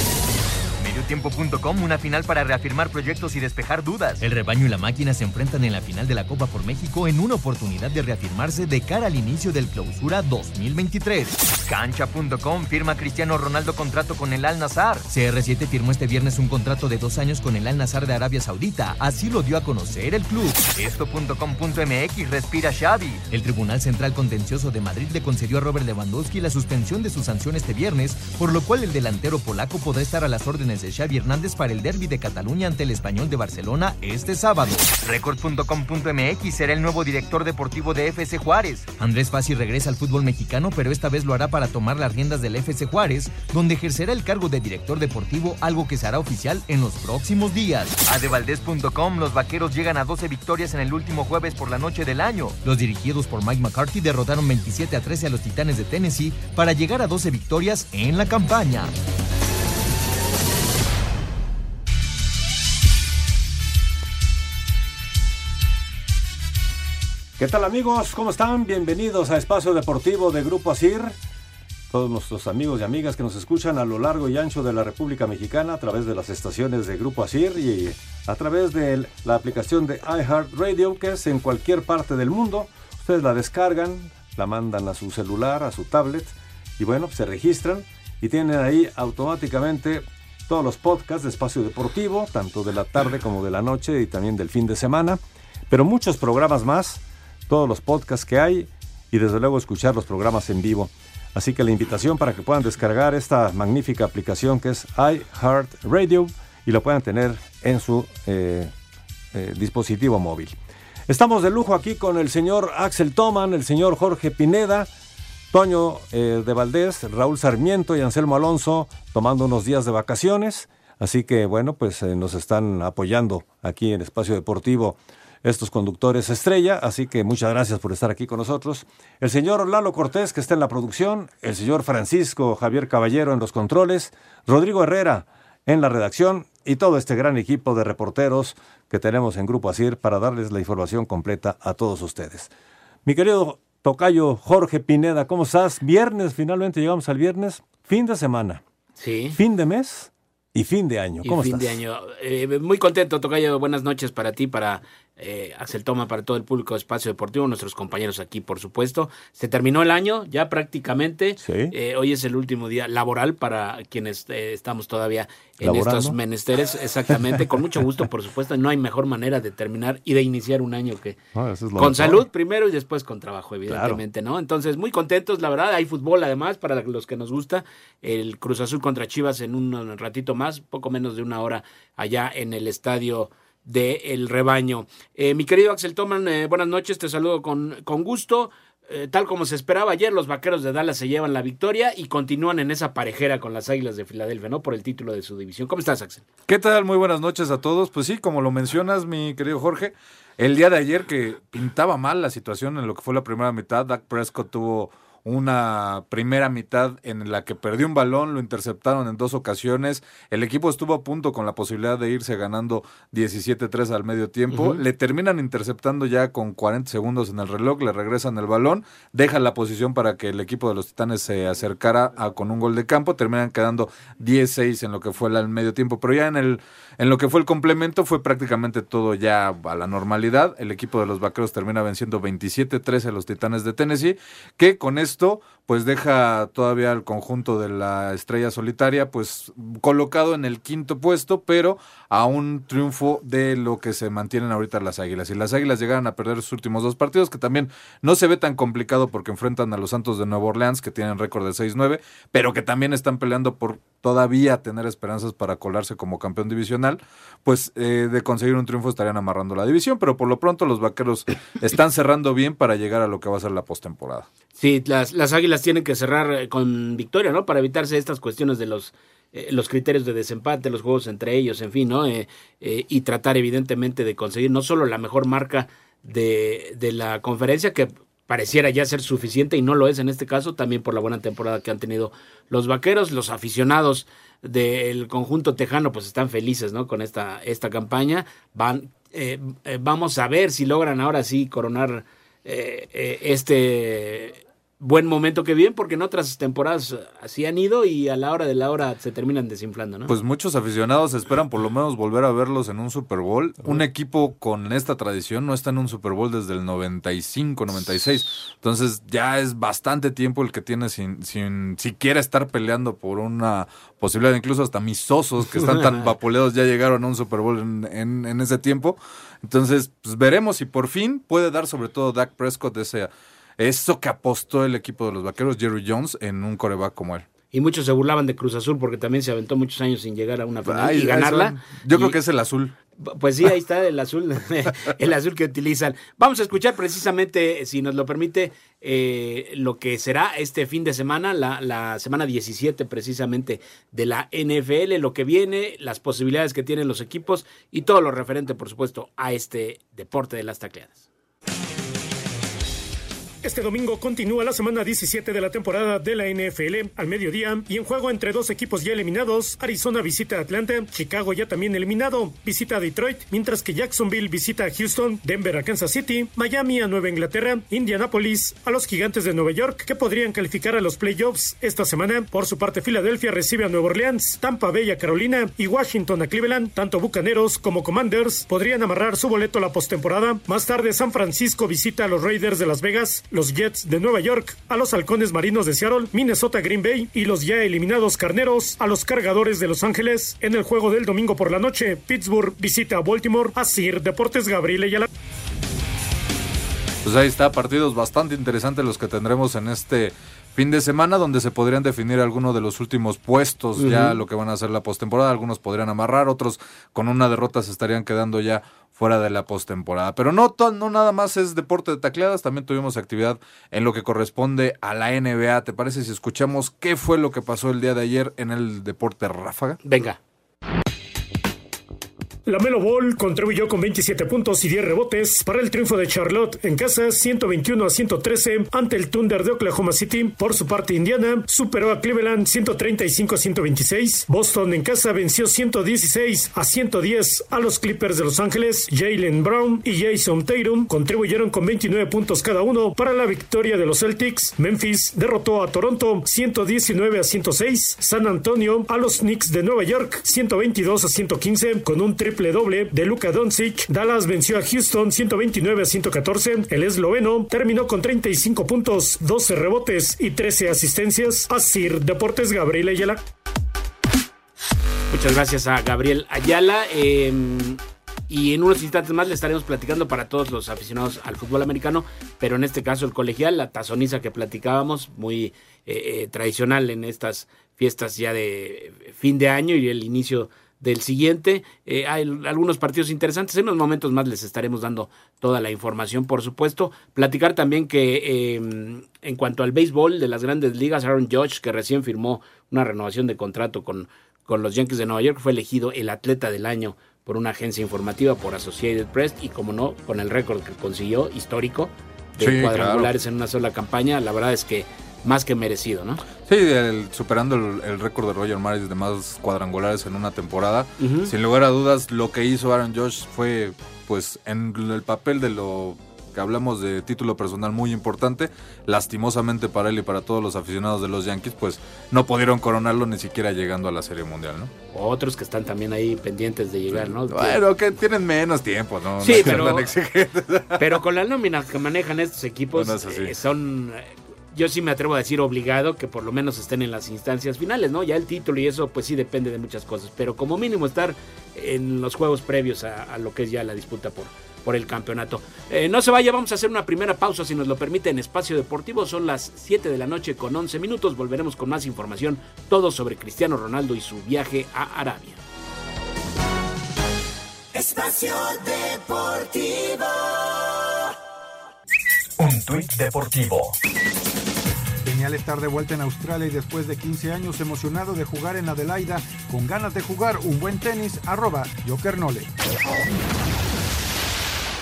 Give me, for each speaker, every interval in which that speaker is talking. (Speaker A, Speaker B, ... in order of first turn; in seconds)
Speaker A: 0.8-58.9, 562.4-563.8
Speaker B: 67.4-71.2, 71.9-108.7, 109.3-110.5, 111.1-114.9, 115.5-142.5, 143.1-148.6, 149.3-151.8, 161.4-161.7, 165.6-166.2, 171.3-172.3, 173.7-174.0
Speaker C: 149.0-149.4, 151.2-171.2, 171.8-196.2, 214.5-214.8, 264.6-300.1, 327.5-332.2, 333.0-351.1, 403.8-404.2, 419.8-420.2, 465.1-506.2, 511.0-511.3, 524.9-527.6, 529.2-529.9, 530.8-555.4
Speaker D: 196.5-264.3, 300.1-327.3, 330.6-332.8, 397.0-419.8, 502.4-503.1, 506.4-524.7, 526.9-530.9, 532.8-533.3
Speaker E: 353.4-395.1, 422.5-463.2
Speaker F: 565.0-572.5